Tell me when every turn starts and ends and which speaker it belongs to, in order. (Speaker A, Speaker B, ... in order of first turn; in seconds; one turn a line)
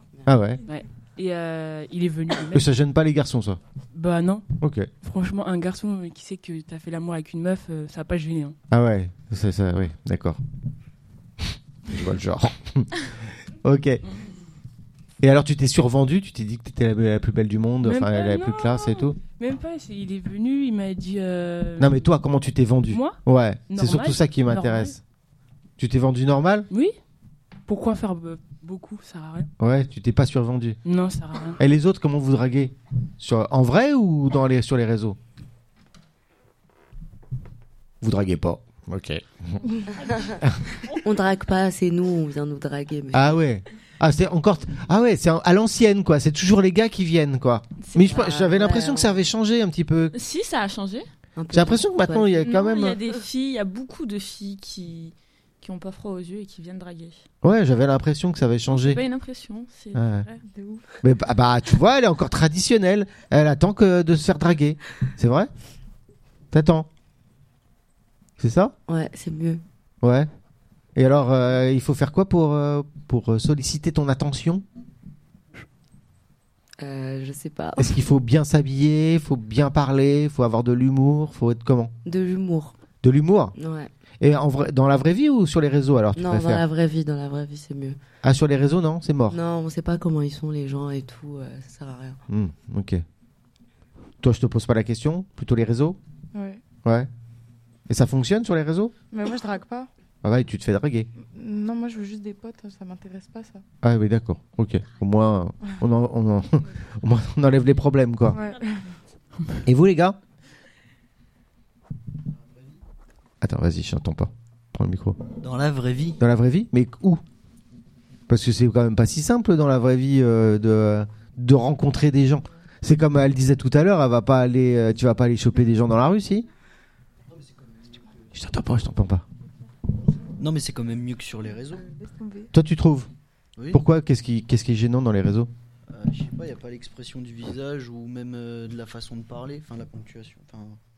Speaker A: 0.3-0.6
Speaker B: 0.7-2.7
Speaker A: 2.5-3.6
Speaker B: 3.9-4.5
Speaker A: 4.6-4.9
Speaker B: 5.0-8.6
Speaker A: 8.7-10.4
Speaker A: 11.4-14.0
Speaker A: 15.2-19.2
Speaker B: 17.8-22.1
Speaker A: 21.8-25.0
Speaker B: 22.9-25.0
Speaker A: 25.8-26.7
Speaker B: 26.7-27.0
Speaker B: 27.7-29.5
Speaker A: 29.6-30.8
Speaker B: 30.8-31.6
Speaker A: 31.6-35.2
Speaker A: 38.0-39.8
Speaker C: 40.0-43.3
Speaker A: 40.4-40.7
Speaker A: 43.1-50.1
Speaker C: 47.9-49.3
Speaker D: 50.1-51.0
Speaker C: 51.4-52.5
Speaker A: 51.5-53.0
Speaker D: 52.4-57.2
Speaker A: 57.4-59.0
Speaker D: 58.7-60.4
Speaker A: 60.0-60.3
Speaker E: 60.5-60.8
Speaker A: 61.0-65.5
Speaker A: 66.5-66.9
Speaker A: 68.4-68.7
Speaker C: 68.9-69.6
Speaker A: 70.0-70.3
Speaker A: 71.0-74.6
Speaker C: 76.8-78.0
Speaker A: 77.8-81.9
Speaker C: 82.0-82.8
Speaker A: 83.0-83.6
Speaker C: 83.6-83.9
Speaker A: 84.2-86.6
Speaker C: 86.2-88.0
Speaker A: 88.2-89.4
Speaker C: 89.3-92.2
Speaker A: 92.3-93.0
Speaker A: 94.2-96.0
Speaker E: 96.3-96.6
Speaker A: 96.8-97.1
Speaker A: 97.9-98.9
Speaker E: 99.1-99.9
Speaker A: 100.2-101.1
Speaker E: 101.2-103.6
Speaker A: 103.8-108.4
Speaker E: 108.3-108.9
Speaker A: 109.6-110.2
Speaker A: 113.4-115.2
Speaker F: 115.4-116.2
Speaker A: 116.2-117.2
Speaker A: 118.3-126.5
Speaker A: 128.3-129.2
Speaker F: 130.4-131.8
Speaker E: 131.7-132.5
Speaker A: 132.5-133.1
Speaker A: 133.7-135.5
Speaker F: 135.9-140.8